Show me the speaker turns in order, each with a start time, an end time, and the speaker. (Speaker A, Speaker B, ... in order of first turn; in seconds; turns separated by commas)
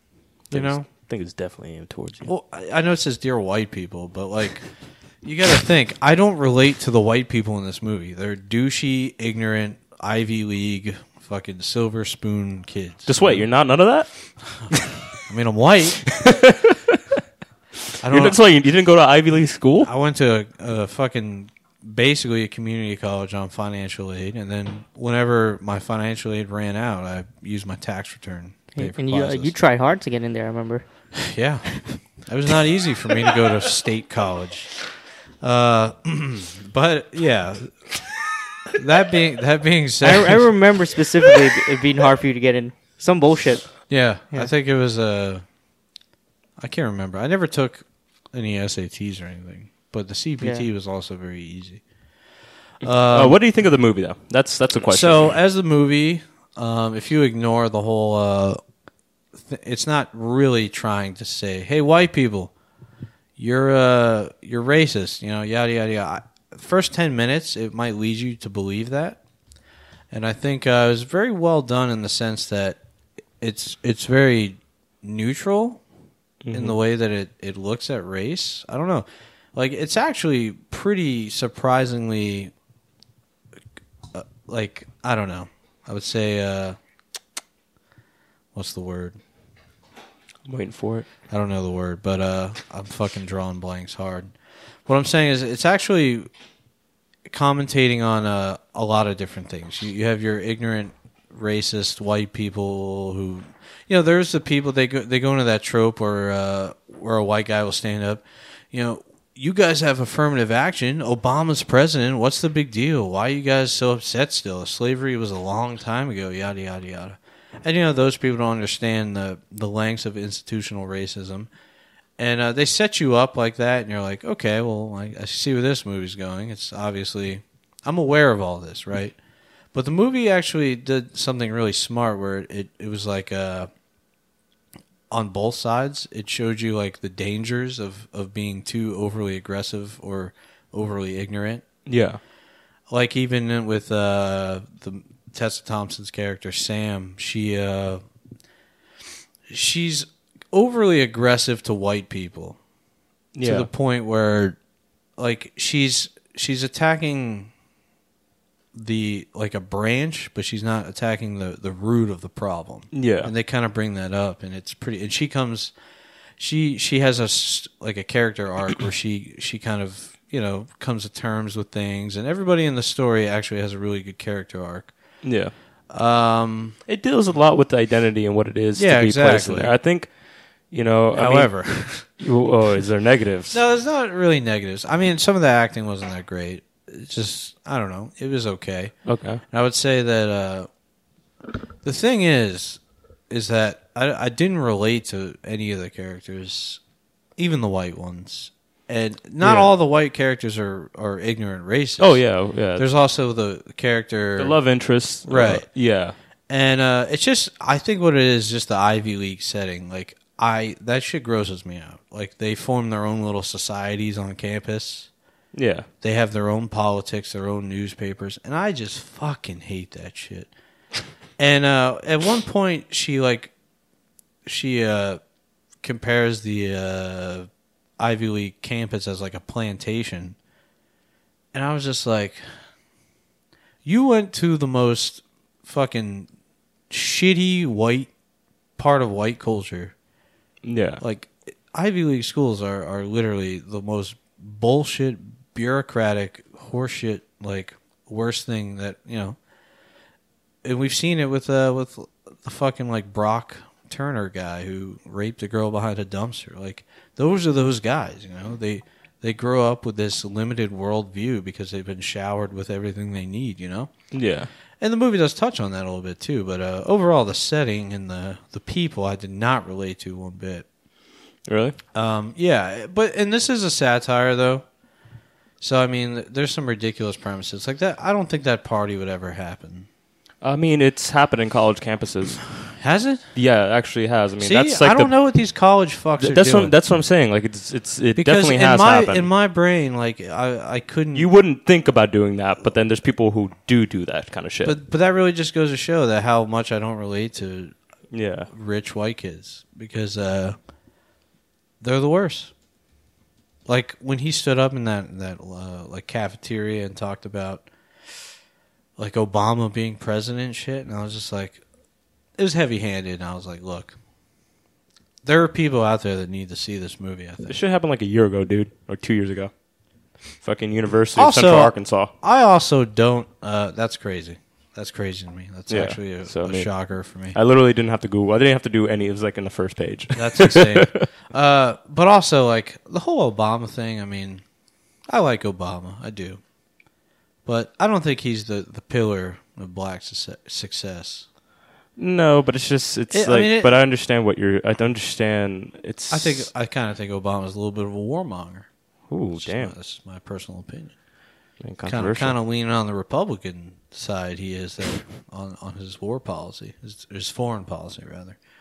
Speaker A: 0.5-0.9, Speaker B: 0.5-2.3, Speaker A: 2.2-4.7, Speaker A: 5.2-13.5, Speaker B: 13.1-15.0, Speaker A: 15.2-16.2, Speaker B: 16.1-17.0, Speaker A: 18.0-18.4, Speaker B: 18.0-19.9, Speaker A: 19.8-29.5, Speaker C: 28.7-30.8, Speaker A: 31.2-34.8, Speaker A: 35.4-38.1, Speaker A: 38.7-40.5, Speaker C: 40.0-44.5, Speaker A: 43.9-45.4, Speaker A: 46.6-51.8, Speaker C: 50.4-50.6, Speaker A: 52.8-53.4, Speaker B: 53.1-55.3, Speaker A: 54.9-58.6, Speaker A: 59.3-62.5, Speaker A: 63.4-69.2, Speaker A: 70.1-72.8, Speaker A: 73.4-75.8, Speaker B: 76.4-76.8, Speaker A: 76.5-82.5, Speaker A: 84.1-86.8, Speaker A: 88.5-89.2, Speaker B: 90.5-91.0, Speaker A: 91.3-94.3, Speaker A: 94.8-96.3, Speaker A: 97.2-121.5, Speaker A: 122.2-129.2, Speaker A: 129.7-133.7, Speaker A: 135.1-141.6, Speaker B: 141.8-142.2, Speaker A: 142.9-148.0, Speaker A: 149.5-152.6, Speaker B: 153.3-153.7, Speaker A: 153.4-154.6, Speaker A: 155.2-157.5, Speaker A: 158.7-165.7, Speaker B: 162.9-163.3, Speaker A: 166.4-174.9, Speaker B: 175.2-175.5, Speaker A: 175.9-176.8, Speaker B: 176.9-180.1, Speaker A: 178.8-179.7, Speaker B: 180.7-183.6, Speaker A: 181.1-182.1, Speaker A: 183.5-188.9, Speaker B: 189.1-189.4, Speaker A: 189.5-190.7, Speaker A: 191.8-196.8, Speaker A: 197.4-202.2, Speaker B: 199.4-199.7, Speaker B: 202.0-202.9, Speaker A: 202.7-204.6, Speaker B: 204.4-206.1, Speaker A: 205.2-205.7, Speaker A: 206.5-215.1, Speaker B: 215.5-215.9, Speaker A: 216.0-220.5, Speaker A: 221.4-223.5, Speaker A: 224.4-225.2, Speaker A: 225.8-230.4, Speaker A: 231.5-232.4, Speaker A: 233.8-236.3, Speaker A: 236.9-238.1, Speaker A: 238.8-239.9, Speaker B: 240.6-241.0, Speaker A: 241.0-249.4, Speaker A: 250.6-263.9, Speaker B: 264.1-264.5, Speaker A: 264.8-270.6, Speaker B: 271.5-271.8, Speaker A: 271.9-274.6, Speaker A: 275.6-279.9, Speaker B: 280.4-282.5, Speaker A: 282.8-283.2, Speaker B: 283.3-285.1, Speaker A: 284.4-286.7, Speaker B: 286.2-289.3, Speaker A: 288.1-291.3, Speaker B: 291.1-294.8, Speaker A: 294.6-297.7, Speaker B: 298.1-298.5, Speaker A: 298.5-300.6, Speaker A: 301.8-302.5, Speaker A: 303.6-307.7, Speaker A: 309.0-311.6, Speaker A: 312.4-313.9, Speaker A: 315.2-317.6, Speaker B: 317.5-319.5, Speaker B: 320.4-322.1, Speaker A: 321.1-327.4, Speaker B: 325.7-326.7, Speaker B: 327.3-331.0, Speaker A: 330.1-334.4, Speaker A: 335.1-336.4, Speaker A: 337.4-341.3, Speaker B: 342.0-346.5, Speaker A: 343.1-343.8, Speaker A: 346.1-348.7, Speaker B: 349.1-349.7, Speaker A: 349.3-350.9, Speaker B: 351.6-352.3, Speaker A: 351.8-358.4